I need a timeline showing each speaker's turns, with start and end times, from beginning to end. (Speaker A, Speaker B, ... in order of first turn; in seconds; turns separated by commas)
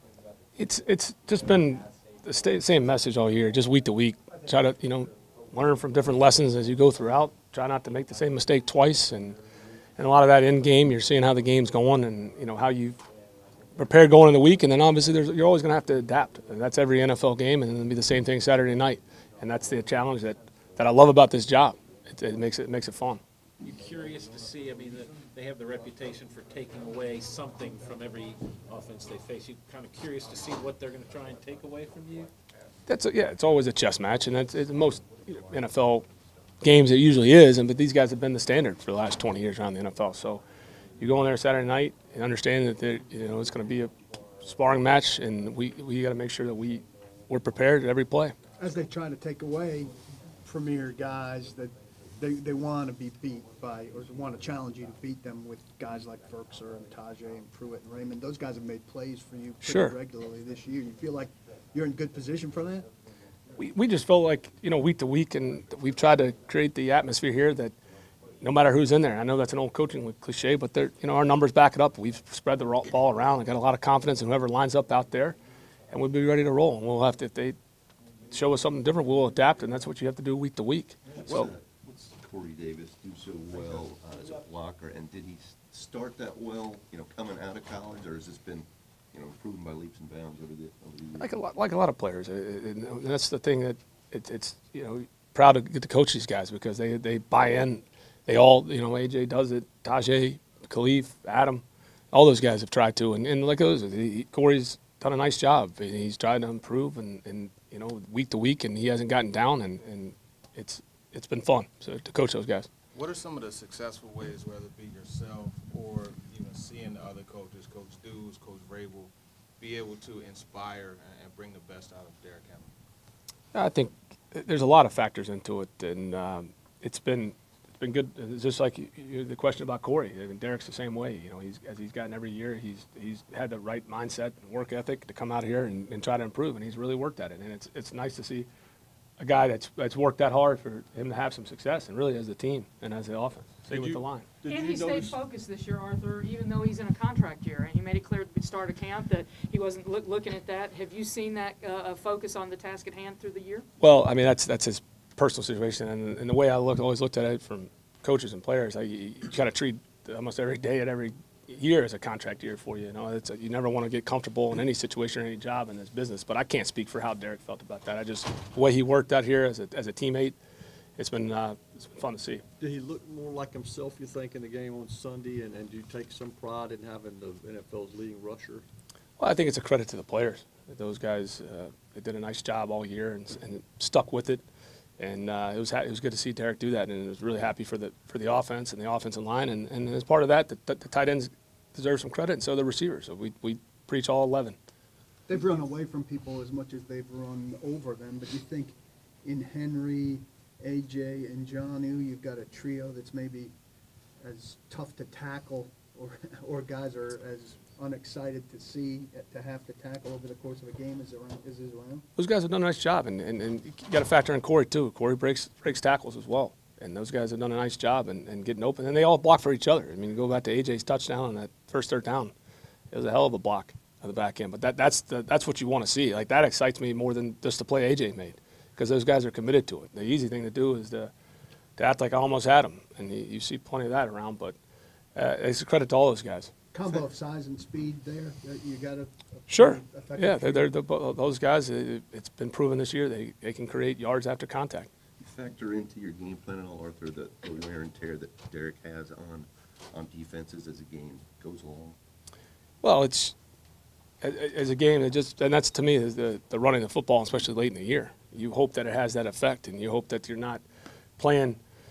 Speaker A: 0.6-9.4, Speaker A: 10.0-13.0, Speaker A: 13.7-23.2, Speaker B: 23.6-32.3, Speaker A: 32.9-36.1, Speaker A: 36.6-40.4, Speaker A: 41.0-48.3, Speaker C: 48.6-62.9, Speaker A: 59.6-60.0, Speaker A: 63.6-67.7, Speaker A: 68.4-75.4, Speaker A: 75.9-77.5, Speaker A: 78.3-81.5, Speaker D: 81.2-91.3, Speaker A: 91.2-112.7, Speaker E: 112.9-122.7, Speaker A: 123.5-138.5, Speaker A: 139.2-144.4, Speaker F: 144.5-153.6, Speaker G: 144.5-145.1, Speaker A: 153.8-170.3, Speaker A: 171.0-172.4, Speaker G: 172.6-178.6, Speaker A: 179.2-184.4, Speaker A: 185.0-194.6, Speaker C: 195.3-203.5, Speaker C: 204.2-212.0, Speaker A: 212.2-222.3, Speaker A: 222.9-231.1, Speaker A: 231.8-234.6, Speaker A: 235.1-236.5, Speaker C: 236.7-240.7, Speaker A: 239.5-244.9, Speaker D: 245.2-252.0, Speaker A: 252.8-253.3, Speaker A: 254.2-260.6, Speaker A: 261.2-261.6